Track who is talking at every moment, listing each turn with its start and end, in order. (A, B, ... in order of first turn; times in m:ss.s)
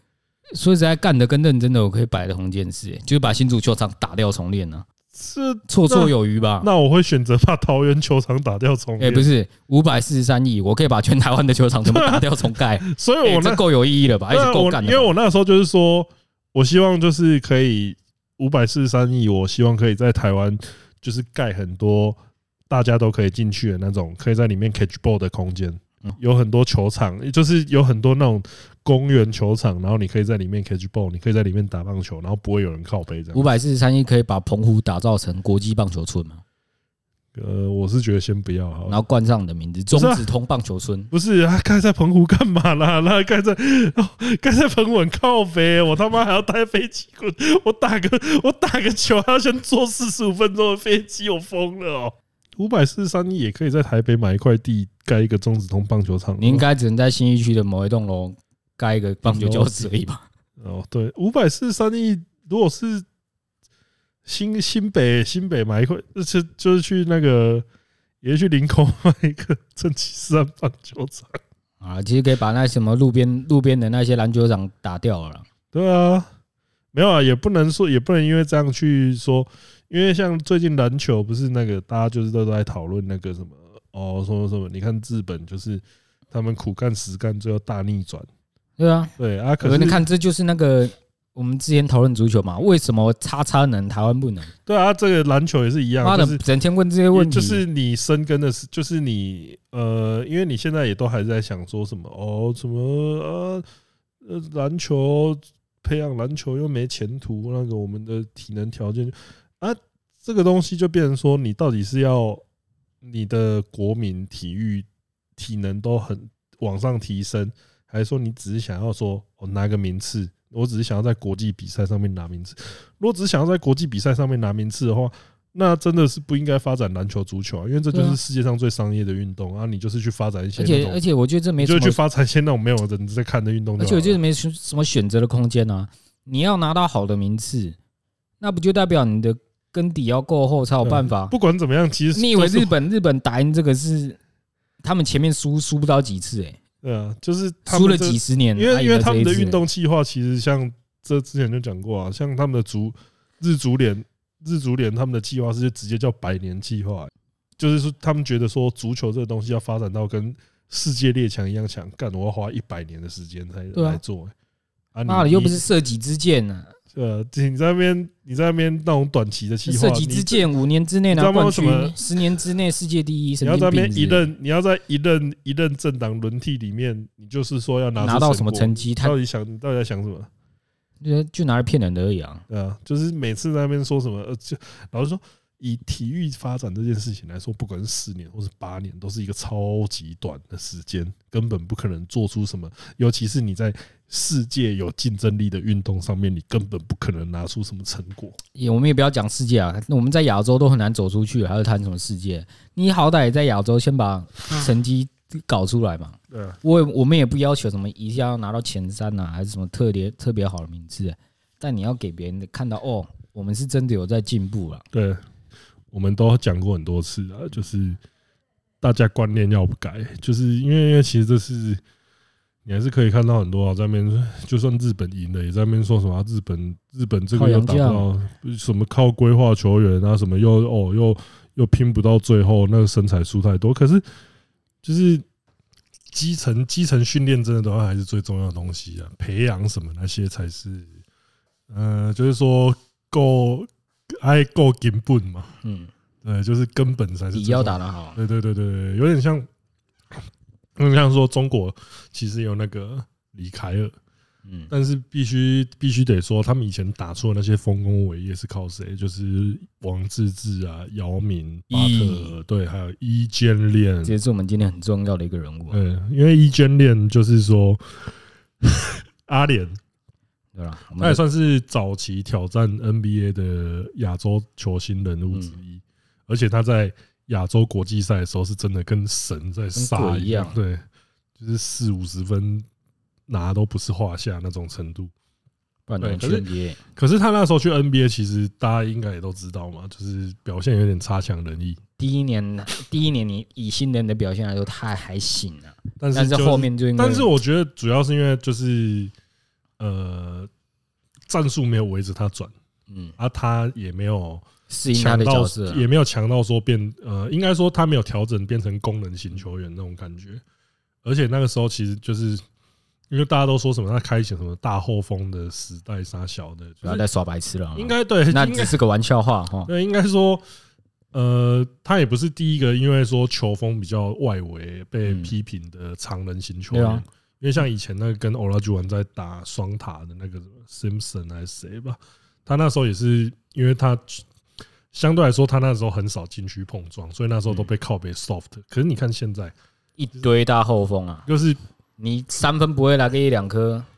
0:00.5-0:04.8 A
0:05.1-0:09.3 B
0:05.7-0:06.7 A
0:09.0-0:15.1 A
0:11.8-0:13.6 B
0:14.3-0:22.2 B
0:22.7-0:33.5 B
0:33.3-0:36.4 A
0:37.4-0:39.0 B
0:38.9-0:41.1 A
0:39.9-0:40.3 B
0:41.1-0:56.7 B
0:56.4-1:00.2 A
0:59.2-0:59.9 B
1:00.6-1:03.0 B
1:04.3-1:07.6 B
1:08.2-1:11.4 B
1:11.8-1:15.4 A
1:15.7-1:16.3 B
1:16.9-1:28.3 B
1:28.8-1:34.5 A
1:29.2-1:30.0 B
1:34.7-1:36.4 B
1:36.0-1:37.6 A
1:37.1-1:43.6 B
1:44.2-1:52.4 B
1:53.0-2:11.0 B
2:07.9-2:08.2 A
2:10.6-2:12.0 A
2:11.6-2:14.2 B
2:13.8-2:17.8 A
2:18.4-2:21.3 A
2:20.8-2:22.7 B
2:22.1-2:24.2 A
2:24.8-2:26.6 A
2:26.8-2:44.3 B
2:27.7-2:29.6 A
2:43.8-2:44.0 A
2:44.9-2:45.6 B
2:45.1-2:46.7 A
2:46.9-2:50.5 B
2:49.7-2:54.3 A
2:51.1-2:52.0 B
2:53.4-3:00.3 B
2:58.0-2:59.2 A
3:01.0-3:02.4 A
3:02.5-3:18.4 B
3:18.6-3:34.8 A
3:26.3-3:26.6 B
3:34.9-3:35.2 B
3:35.9-3:38.0 B
3:38.8-3:41.8 B
3:42.6-3:54.0 B
3:47.3-3:48.1 A
3:54.8-3:55.2 B
3:56.1-4:00.9 B
4:01.7-4:03.7 B
4:04.2-4:05.5 B
4:05.6-4:05.9 A
4:06.2-4:09.5 B
4:07.3-4:08.2 A
4:10.8-4:13.9 B
4:14.5-4:14.7 A
4:14.7-4:24.2 B
4:21.7-4:22.4 A
4:24.0-4:25.8 A
4:25.7-4:27.8 B
4:28.6-4:29.8 B
4:30.6-4:31.2 A
4:31.0-4:40.8 B
4:39.8-4:40.6 A
4:41.4-4:42.7 B
4:43.3-4:45.1 B
4:45.9-4:46.8 A
4:46.0-4:51.8 B
4:52.0-4:57.3 A
4:56.0-4:59.1 B
4:59.8-5:00.5 B
5:01.3-5:02.5 B
5:02.9-5:03.2 A
5:03.2-5:10.4 B
5:04.7-5:05.8 A
5:11.0-5:12.4 B
5:13.1-5:17.0 B
5:16.8-5:19.7 A
5:17.8-5:18.8 B
5:19.7-5:20.4 B
5:21.1-5:34.2 B
5:25.1-5:25.3 A
5:26.7-5:27.0 A
5:34.9-5:39.5 B
5:40.0-5:41.3 A
5:41.3-5:41.6 B
5:42.0-5:43.9 A